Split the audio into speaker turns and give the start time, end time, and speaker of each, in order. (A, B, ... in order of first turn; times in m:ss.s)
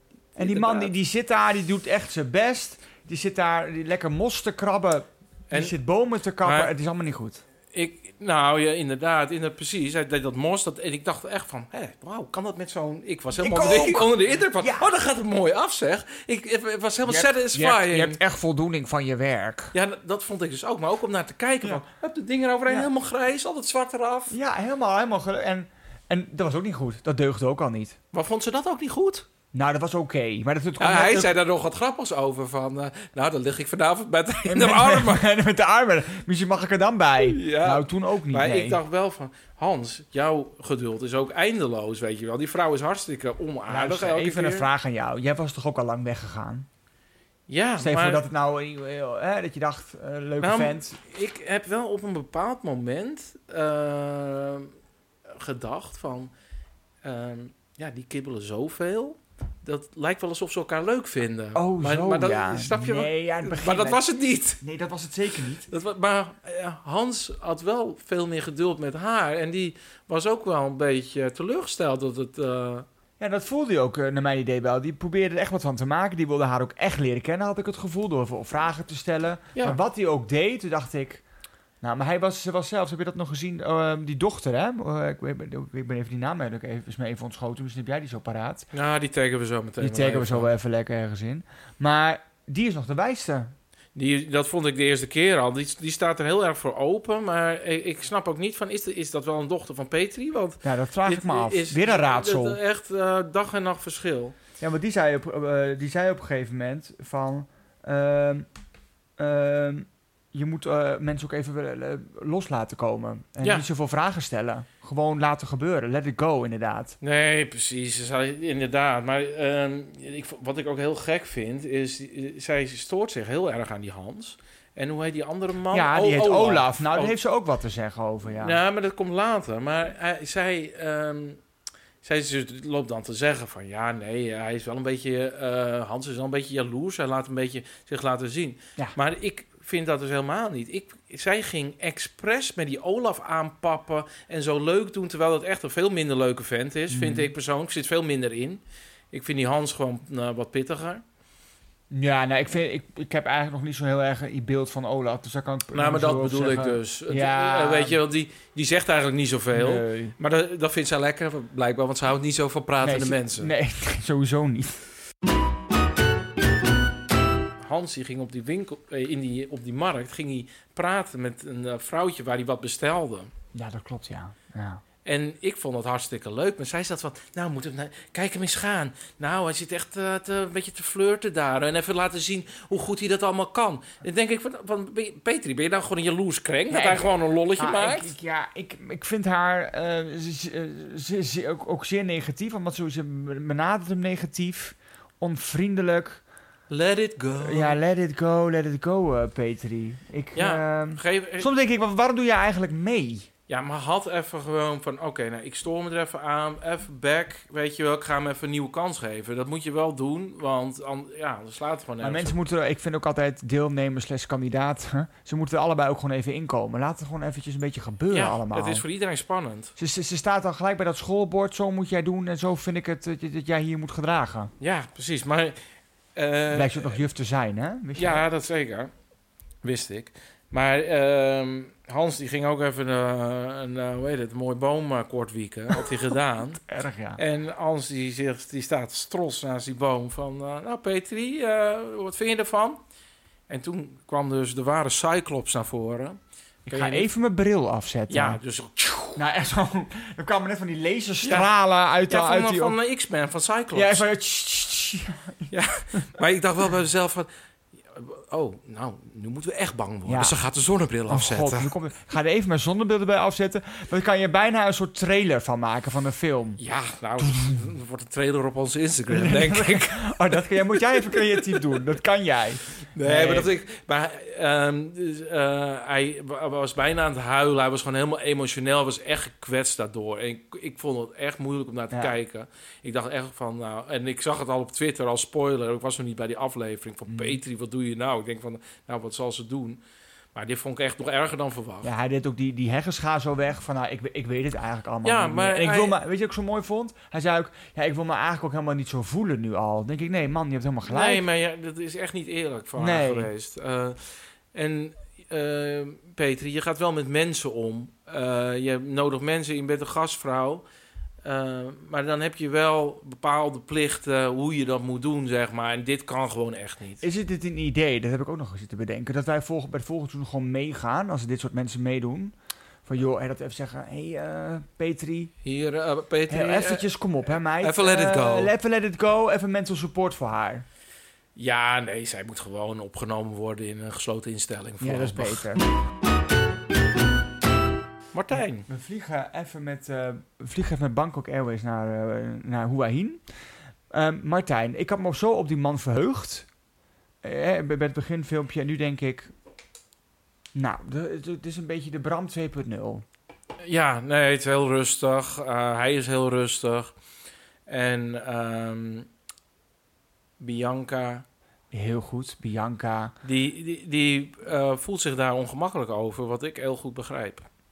0:00.4-0:07.4 A
0:00.4-0:00.9 B
0:05.5-0:05.8 B
0:06.4-0:06.7 B
0:07.7-0:18.2 B
0:13.4-0:14.9 A
0:17.0-0:19.7 A
0:19.7-0:24.3 B
0:24.3-0:28.0 A
0:28.1-0:29.2 B
0:29.5-0:31.4 A
0:30.8-0:35.3 B
0:34.5-0:38.8 A
0:37.2-0:44.7 B
0:43.7-0:46.7 A
0:47.5-0:48.2 B
0:47.8-0:51.0 A
0:50.4-0:54.7 B
0:55.3-0:56.3 B
0:57.0-1:04.6 B
1:01.5-1:04.0 A
1:04.6-1:05.7 A
1:05.7-1:12.8 B
1:13.2-1:21.2 A
1:21.8-1:28.7 A
1:28.7-1:30.5 B
1:29.8-1:33.5 A
1:33.9-1:44.4 B
1:40.6-1:42.6 A
1:44.6-1:48.4 A
1:49.2-1:57.0 A
1:57.0-2:07.1 B
2:05.7-2:08.6 A
2:08.4-2:11.4 B
2:12.0-2:31.0 B
2:26.9-2:27.3 A
2:31.9-2:38.0 A
2:35.7-2:43.5 B
2:39.5-2:40.1 A
2:42.8-2:44.8 A
2:47.6-2:53.3 B
2:53.5-2:54.8 A
2:55.0-3:08.1 B
3:06.7-3:16.2 A
3:16.7-3:17.8 B
3:17.4-3:23.3 A
3:20.4-3:21.5 B
3:23.5-3:32.3 B
3:32.0-3:38.8 A
3:38.1-3:39.7 B
3:39.8-3:44.5 A
3:44.6-3:45.6 B
3:46.1-3:47.0 B
3:46.5-3:48.2 A
3:48.0-3:48.9 B
3:49.6-3:56.6 B
3:56.6-3:57.2 A
3:57.2-4:02.8 B
4:03.5-4:07.1 B
4:06.6-4:08.4 A
4:08.1-4:09.2 B
4:09.2-4:12.8 A
4:11.2-4:11.5 B
4:12.1-4:14.0 B
4:13.7-4:15.5 A
4:15.5-4:17.3 B
4:17.9-4:21.7 B
4:20.0-4:20.4 A
4:21.1-4:26.6 A
4:26.6-4:31.8 B
4:27.2-4:27.7 A
4:29.1-4:33.5 A
4:32.9-4:49.8 B
4:47.1-4:47.4 A
4:50.3-4:51.9 B
4:51.8-5:01.2 A
4:55.0-4:56.0 B
5:00.9-5:10.6 B
5:02.8-5:03.3 A
5:11.2-5:17.0 B
5:17.0-5:22.3 A
5:22.8-5:25.3 A
5:25.4-5:26.9 B
5:26.3-5:30.6 A
5:27.6-5:28.5 B
5:31.4-5:35.4 B
5:34.8-5:35.6 A
5:38.1-5:38.7 B
5:38.3-5:43.2 A
5:43.9-5:46.5 A
5:47.2-5:49.3 A
5:50.5-5:53.0 A
5:53.6-5:56.9 B
5:57.7-5:59.1 B
6:00.4-6:01.2 B
6:01.7-6:03.1 A
6:03.2-6:07.4 B